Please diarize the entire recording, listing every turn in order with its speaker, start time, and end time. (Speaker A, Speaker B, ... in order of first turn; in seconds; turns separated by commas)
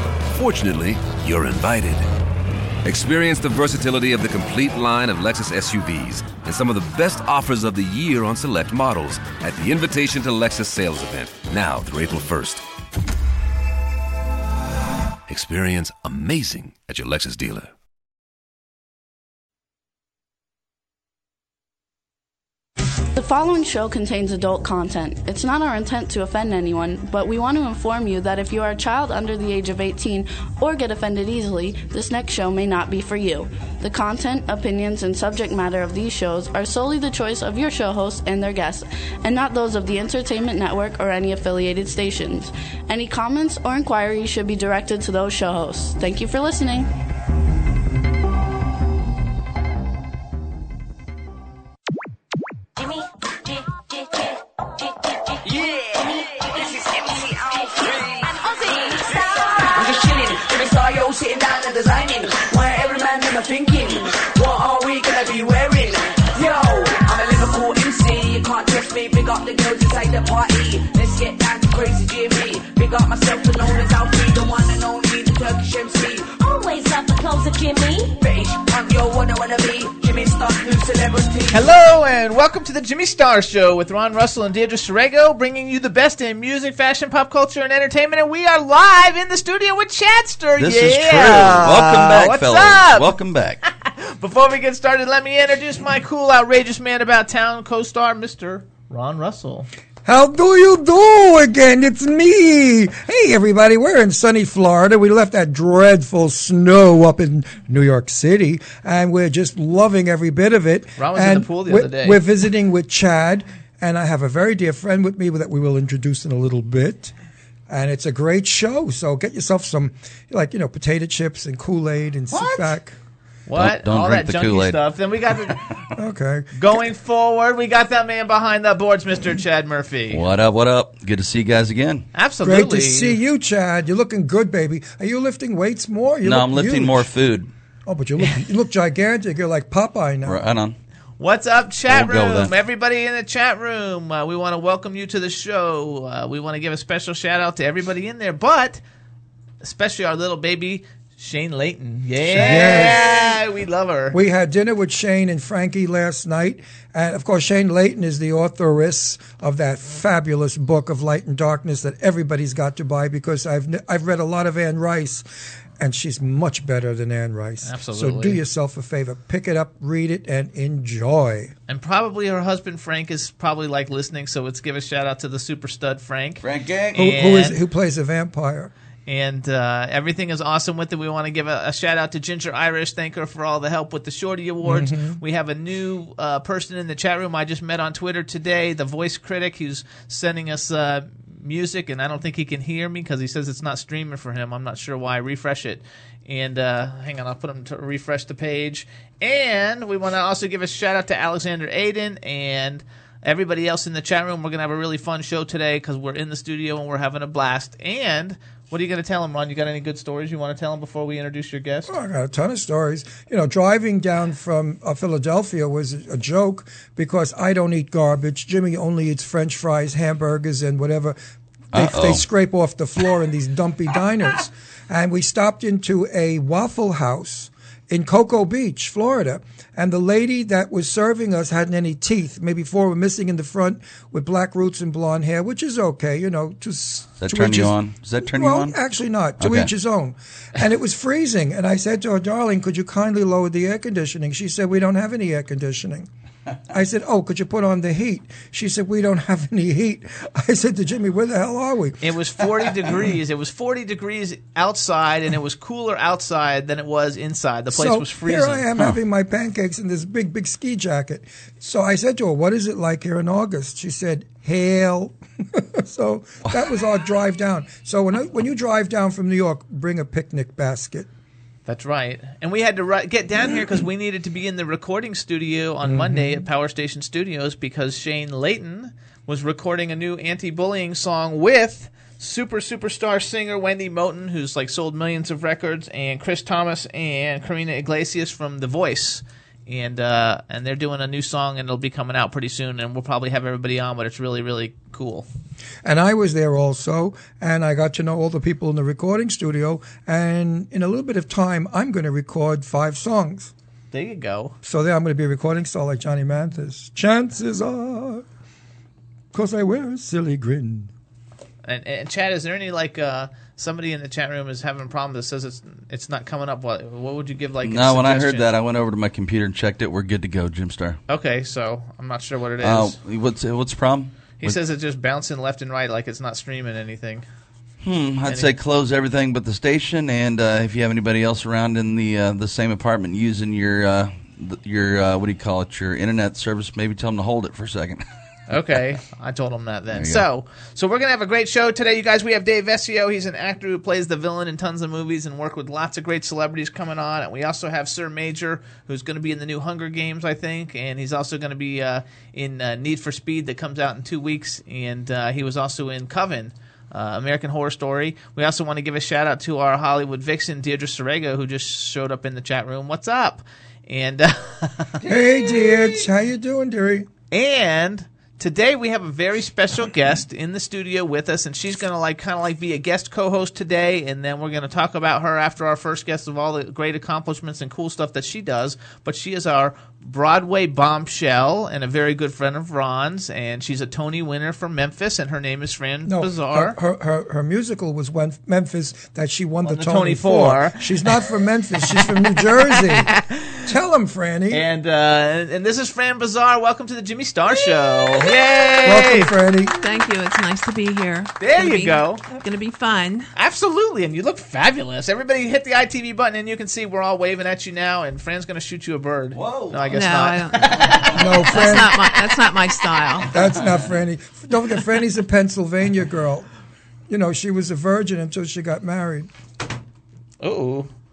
Speaker A: 0.3-2.0, Speaker A: 2.8-12.6, Speaker A: 15.3-17.7, Speaker B: 23.1-46.9, Speaker C: 52.8-55.3, Speaker D: 55.4-76.3, Speaker C: 57.6-59.7, Speaker C: 76.4-78.1, Speaker D: 78.2-81.7, Speaker E: 81.5-99.7, Speaker F: 90.6-93.6, Speaker G: 100.0-117.1, Speaker E: 111.0-112.2, Speaker G: 117.7-123.0, Speaker E: 122.3-122.8, Speaker E: 123.5-125.7, Speaker F: 123.5-124.8, Speaker G: 126.0-126.7, Speaker E: 126.5-130.2, Speaker F: 130.1-132.1, Speaker E: 132.1-133.2, Speaker G: 132.4-137.1, Speaker F: 136.2-137.5, Speaker G: 137.8-140.4, Speaker F: 140.2-140.8, Speaker E: 141.2-148.8, Speaker F: 141.9-142.5, Speaker E: 149.6-154.2, Speaker G: 152.3-153.3, Speaker F: 152.4-152.6, Speaker G: 154.1-165.2, Speaker G: 165.8-171.5, Speaker E: 167.6-168.4, Speaker E: 171.7-176.4, Speaker F: 176.4-177.0, Speaker E: 176.9-177.5, Speaker G: 176.9-178.7, Speaker E: 179.1-211.9, Speaker G: 184.6-185.2, Speaker G: 211.9-221.2, Speaker F: 221.7-222.2, Speaker G: 221.7-246.1, Speaker F: 237.2-238.7, Speaker F: 239.4-239.7, Speaker G: 246.7-252.0, Speaker E: 252.0-258.6, Speaker G: 257.7-271.1, Speaker E: 271.7-295.2, Speaker G: 275.8-276.4, Speaker G: 295.8-303.5, Speaker E: 303.9-304.5, Speaker G: 304.6-308.2, Speaker G: 309.3-310.9, Speaker E: 311.6-318.5, Speaker F: 317.6-321.0, Speaker E: 321.1-322.9, Speaker F: 322.6-324.6, Speaker E: 324.4-327.2, Speaker F: 327.8-338.0, Speaker E: 328.2-328.5, Speaker E: 338.5-365.0, Speaker F: 339.9-340.2, Speaker G: 365.0-367.1, Speaker E: 367.3-386.8, Speaker G: 386.0-394.6, Speaker E: 389.6-391.0, Speaker E: 394.5-399.3, Speaker G: 398.1-399.7, Speaker H: 399.8-403.3, Speaker E: 401.4-402.3, Speaker E: 403.4-411.7, Speaker F: 409.3-410.0, Speaker H: 409.9-413.4, Speaker F: 410.7-411.1, Speaker G: 411.1-412.0, Speaker G: 413.3-416.5, Speaker G: 417.1-419.3, Speaker E: 420.4-420.9